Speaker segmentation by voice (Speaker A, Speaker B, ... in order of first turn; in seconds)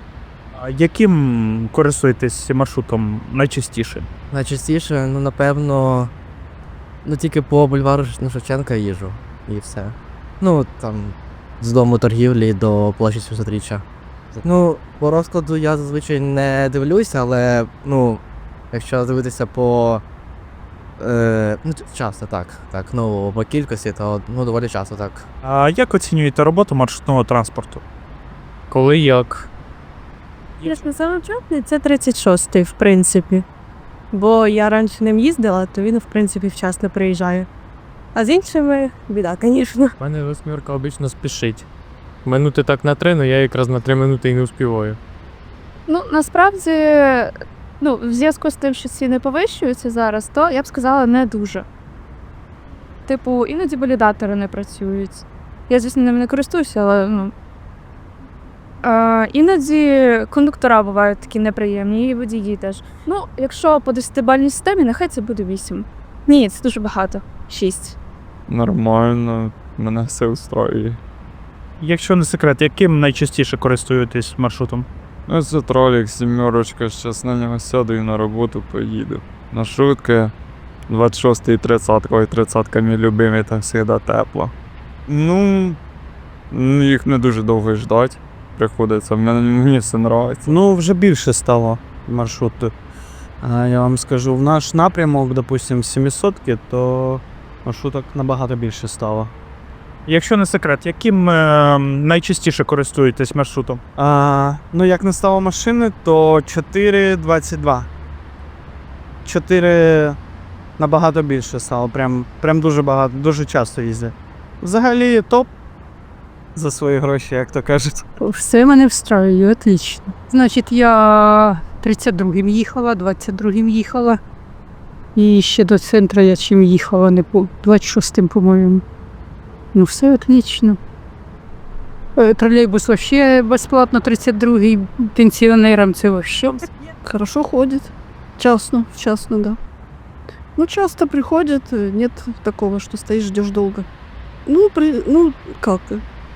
Speaker A: 0.5-4.0, 25.4-27.8, 71.8-74.9, 100.1-103.8
Speaker B: 4.3-6.1, 7.0-13.8, 14.4-20.0, 21.0-25.2
Speaker C: 28.7-29.5, 40.0-41.7, 42.2-45.0
Speaker D: 30.6-33.4, 34.1-37.5, 38.1-39.9
Speaker E: 45.9-51.6, 53.0-57.3, 58.8-68.0
Speaker F: 68.5-71.0, 75.3-80.3, 80.9-84.5, 85.1-85.8, 86.5-90.5
Speaker G: 90.4-92.7, 93.4-99.3, 104.0-107.9, 109.2-110.2, 110.8-115.5, 116.5-118.0
Speaker H: 118.2-124.2, 125.2-128.8, 129.7-130.8, 132.2-136.7
Speaker I: 137.0-139.6, 140.6-143.8, 144.4-146.0